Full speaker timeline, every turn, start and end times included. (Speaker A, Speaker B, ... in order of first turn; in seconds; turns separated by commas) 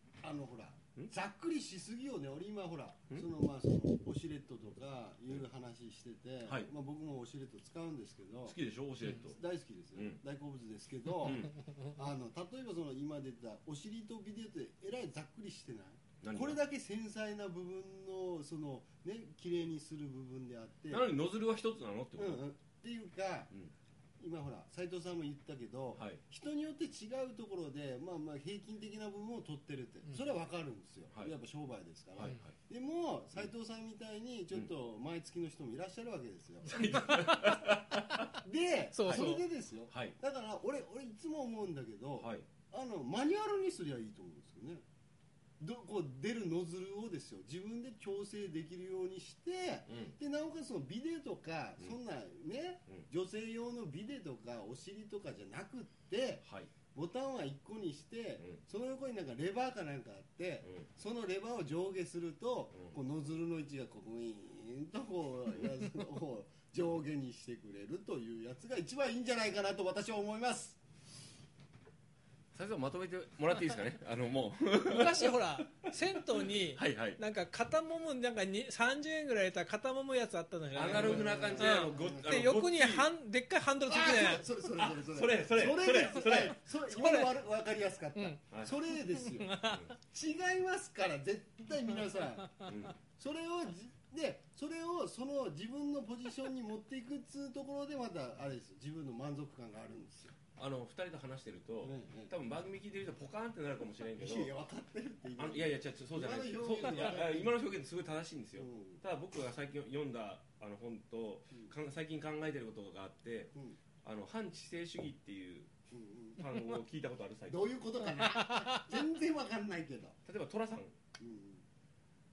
Speaker A: 0.2-8.6, Speaker B: 8.5-9.4, Speaker A: 9.2-21.1, Speaker B: 9.9-10.2, Speaker B: 11.2-11.5, Speaker B: 16.2-16.6, Speaker B: 20.9-22.5, Speaker A: 22.2-23.5, Speaker A: 24.2-36.9, Speaker B: 26.0-26.2, Speaker B: 32.2-32.6, Speaker B: 36.6-38.3, Speaker A: 38.3-44.8, Speaker C: 38.9-39.4, Speaker B: 39.0-39.4, Speaker B: 39.9-40.2, Speaker B: 42.2-42.5, Speaker A: 45.6-70.8, Speaker B: 49.9-50.2, Speaker B: 56.4-56.7, Speaker B: 72.5-75.6, Speaker C: 74.9-84.5, Speaker B: 76.5-77.2, Speaker B: 80.8-83.1, Speaker A: 80.9-82.3, Speaker A: 83.9-100.3, Speaker B: 84.8-86.6, Speaker C: 86.9-87.3, Speaker C: 88.2-88.4, Speaker C: 89.0-89.9, Speaker B: 89.6-89.9, Speaker B: 92.7-93.0, Speaker B: 100.6-104.5, Speaker A: 101.8-102.3, Speaker A: 104.2-107.6, Speaker B: 105.4-113.5, Speaker A: 108.6-109.0, Speaker B: 114.0-115.7, Speaker A: 115.9-116.4, Speaker B: 116.4-117.7, Speaker A: 117.5-120.2, Speaker C: 118.3-118.9, Speaker B: 120.3-121.0, Speaker A: 121.2-121.6